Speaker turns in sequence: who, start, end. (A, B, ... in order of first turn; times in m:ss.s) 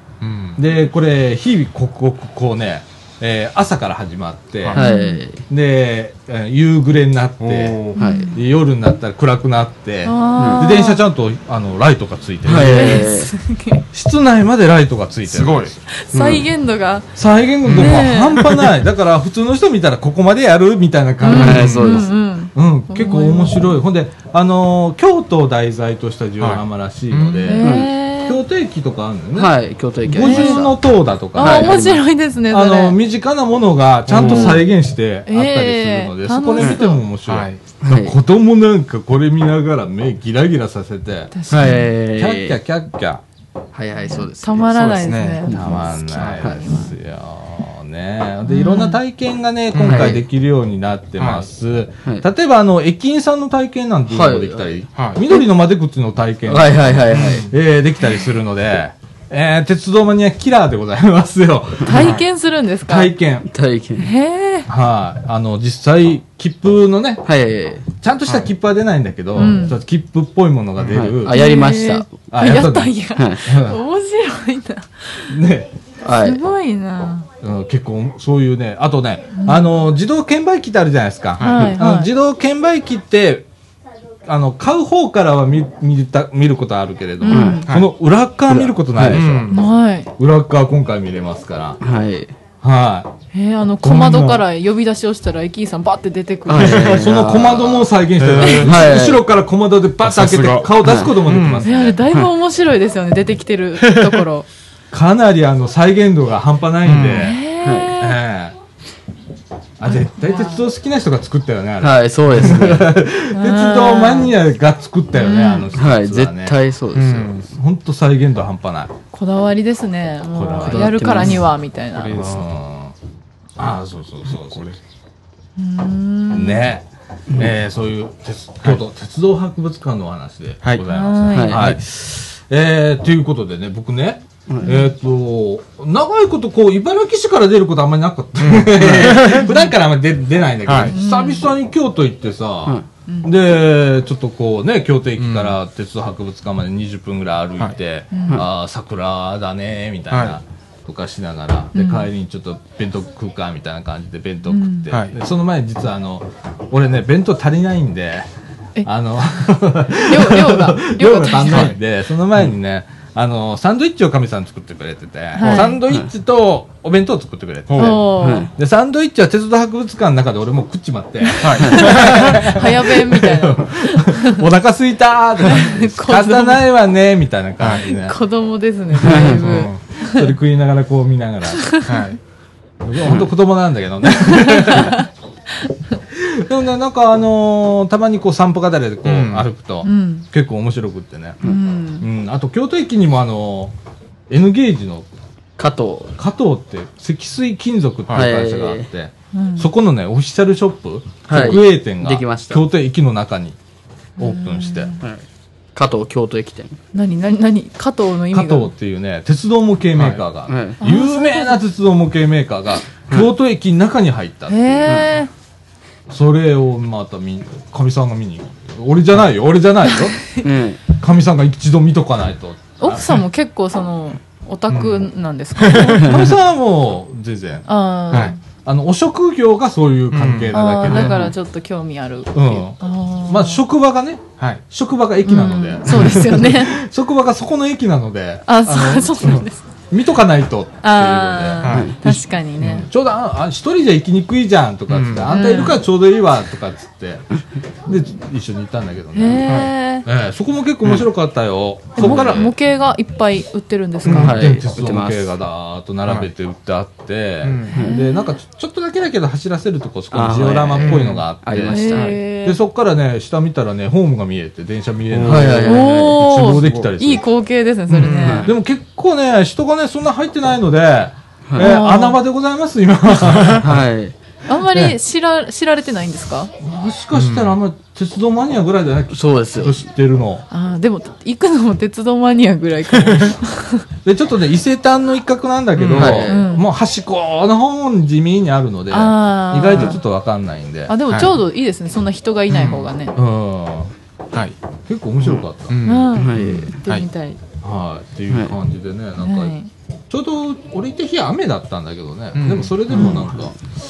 0:00.2-0:00.6 A
0:00.6-0:04.8 B
0:04.7-0:05.4 C
0:04.8-0:05.2 D
0:05.5-0:07.8 B
0:07.4-0:08.0 A
0:08.0-0:08.4 D
0:08.0-0:08.4 C
0:08.3-0:13.1 B
0:10.0-0:11.0 D
0:10.4-0:10.7 C
0:12.4-0:13.3 C
0:12.6-0:13.8 D
0:13.9-0:15.8 B
0:15.3-0:15.8 A
0:15.9-0:18.6 D
0:16.1-0:16.4 C
0:17.2-0:43.2 B
0:17.6-0:18.6 A
0:21.2-0:23.7 D
0:21.2-0:22.1 C
0:21.4-0:21.8 A
0:26.4-0:27.6 A
0:27.4-0:28.4 D
0:27.6-0:27.9 C
0:29.3-0:30.8 C
0:30.2-0:30.6 D
0:31.3-0:32.0 C
0:31.3-0:33.0 D
0:34.0-0:34.6 A
0:34.1-0:34.6 D
0:35.2-0:37.0 D
0:37.3-0:37.6 A
0:37.8-0:38.2 C
0:41.3-0:41.9 D
0:41.5-0:42.6 C
0:43.7-0:46.6 C
0:44.1-0:46.9 D
0:44.7-0:45.4 A
0:45.5-1:02.1 B
0:46.1-0:46.5 A
0:48.4-0:49.0 D
0:49.7-0:50.2 A
0:49.8-0:50.2 C
0:51.2-0:51.5 A
0:54.1-0:54.8 C
0:54.9-0:55.2 A
0:56.5-0:57.5 C
0:57.1-0:57.5 A
1:01.8-1:03.1 D
1:02.0-1:02.2 A
1:02.9-1:03.5 B
1:03.5-1:04.1 C
1:04.0-1:04.7 D
1:04.7-1:07.2 B
1:07.2-1:07.8 C
1:07.8-1:11.4 B
1:09.3-1:09.8 D
1:10.8-1:11.1 A
1:10.9-1:12.1 C
1:11.3-1:15.3 D
1:12.3-1:13.8 B
1:13.2-1:13.4 C
1:15.3-1:15.7 B
1:16.0-1:16.4 C
1:16.1-1:17.3 D
1:17.4-1:23.5 B
1:19.3-1:19.7 D
1:21.4-1:21.7 A
1:21.4-1:22.1 D
1:24.2-1:29.6 B
1:27.2-1:27.7 D
1:27.3-1:27.6 C
1:28.5-1:29.2 C
1:29.0-1:29.6 A
1:29.5-1:30.1 D
1:30.2-1:31.8 B
1:31.8-1:32.3 C
1:32.6-1:33.1 B
1:33.3-1:37.1 D
1:33.8-1:34.4 B
1:36.5-1:37.9 C
1:36.6-1:42.0 B
1:36.6-1:36.9 A
1:38.2-1:38.9 A
1:38.4-1:38.7 D
1:38.6-1:39.2 C
1:40.0-1:41.6 A
1:40.8-1:41.2 C
1:41.6-1:44.5 D
1:43.9-1:44.2 A
1:44.9-1:47.4 B
1:46.8-1:47.3 A
1:47.1-1:48.2 D
1:47.6-1:47.9 C
1:48.0-1:48.5 B
1:49.8-1:56.6 B
1:49.9-1:50.6 D
1:51.8-1:52.9 C
1:53.3-1:54.3 D
1:55.1-1:55.7 D
1:55.7-1:57.3 C
1:56.9-1:57.5 A
1:57.4-1:58.9 B
1:59.1-2:02.4 D
2:00.3-2:01.0 B
2:00.6-2:01.4 C
2:01.9-2:02.5 A
2:02.1-2:02.9 B
2:03.6-2:04.8 B
2:04.4-2:04.8 A
2:05.6-2:06.7 D
2:06.3-2:38.3 B
2:10.8-2:11.7 D
2:11.3-2:11.7 C
2:11.5-2:11.8 A
2:14.6-2:14.9 D
2:18.4-2:19.6 A
2:18.8-2:19.2 C
2:20.6-2:20.9 A
2:20.9-2:21.5 D
2:25.2-2:25.6 A
2:28.1-2:28.4 D
2:30.1-2:30.4 A
2:31.7-2:32.1 D
2:34.5-2:34.9 D
2:34.9-2:35.1 A
2:38.8-2:58.2 B
2:40.0-2:41.7 D
2:41.5-2:41.8 A
2:45.4-2:45.8 D
2:45.4-2:46.0 C
2:47.7-2:48.0 A
2:47.8-2:48.5 D
2:48.2-2:48.5 C
2:51.2-2:54.4 D
2:51.4-2:52.5 A
2:55.4-2:56.6 D
2:57.6-2:57.9 A
2:57.8-3:00.3 D
2:59.0-2:59.4 C
2:59.2-2:59.8 A
2:59.5-3:01.8 B
3:01.6-3:02.0 D
3:01.8-3:02.2 A
3:02.8-3:05.0 B
3:04.2-3:05.1 D
3:06.1-3:11.4 B
3:09.0-3:09.4 A
3:09.8-3:10.2 D
3:11.4-3:12.1 D
3:12.0-3:13.7 B
3:14.3-3:15.1 B
3:15.6-3:16.1 C
3:16.2-3:23.6 B
3:18.1-3:18.9 C
3:19.3-3:19.7 D
3:21.3-3:22.6 C
3:24.2-3:25.0 B
3:24.2-3:25.0 D
3:25.7-3:26.8 C
3:26.9-3:28.7 D
3:28.3-3:35.1 B
3:30.0-3:30.2 A
3:30.5-3:30.8 C
3:30.8-3:31.6 D
3:34.5-3:35.3 D
3:36.1-3:40.2 B
3:39.9-3:40.4 D
3:40.4-3:40.8 C
3:40.9-3:43.0 B
3:42.8-3:46.3 D
3:44.7-3:46.2 A
3:46.0-3:51.3 B
3:47.7-3:48.4 D
3:50.1-3:51.3 A
3:50.5-3:53.6 D
3:52.3-4:07.2 B
3:55.2-3:56.8 D
3:58.5-3:59.6 D
4:00.8-4:02.9 D
4:01.6-4:02.0 A
4:01.7-4:02.0 C
4:04.9-4:05.5 A
4:05.3-4:05.8 D
4:07.8-4:12.5 B
4:09.1-4:10.1 D
4:09.4-4:09.7 A
4:12.0-4:14.4 D
4:14.0-4:14.3 A
4:14.0-4:27.2 B
4:14.1-4:15.3 C
4:17.4-4:17.8 A
4:17.7-4:18.0 C
4:17.7-4:18.3 D
4:20.1-4:22.2 C
4:20.8-4:21.2 A
4:21.7-4:22.6 D
4:25.1-4:25.7 A
4:25.2-4:26.2 C
4:25.6-4:28.5 D
4:26.4-4:26.9 A
4:27.9-4:28.4 A
4:28.1-4:28.5 C
4:28.4-4:33.8 B
4:31.5-4:31.7 C
4:31.6-4:32.2 D
4:33.3-4:33.6 A
4:33.6-4:34.1 C
4:34.5-4:36.5 D
4:36.6-4:40.4 B
4:37.1-4:37.5 A
4:39.1-4:39.8 C
4:40.5-4:43.8 D
4:44.0-4:50.9 B
4:45.8-4:46.2 A
4:45.9-4:46.4 C
4:46.2-4:46.6 D
4:48.9-4:50.0 D
4:50.9-4:53.1 D
4:51.1-4:51.4 A
4:52.5-4:52.9 A
4:53.1-4:53.9 B
4:54.9-4:55.8 B
4:55.7-4:57.0 A
4:55.8-4:57.4 D
4:56.1-4:56.8 C
4:57.6-4:59.6 B
4:59.2-4:59.7 D
5:00.1-5:03.6 B
5:02.3-5:03.2 A
5:02.9-5:03.2 D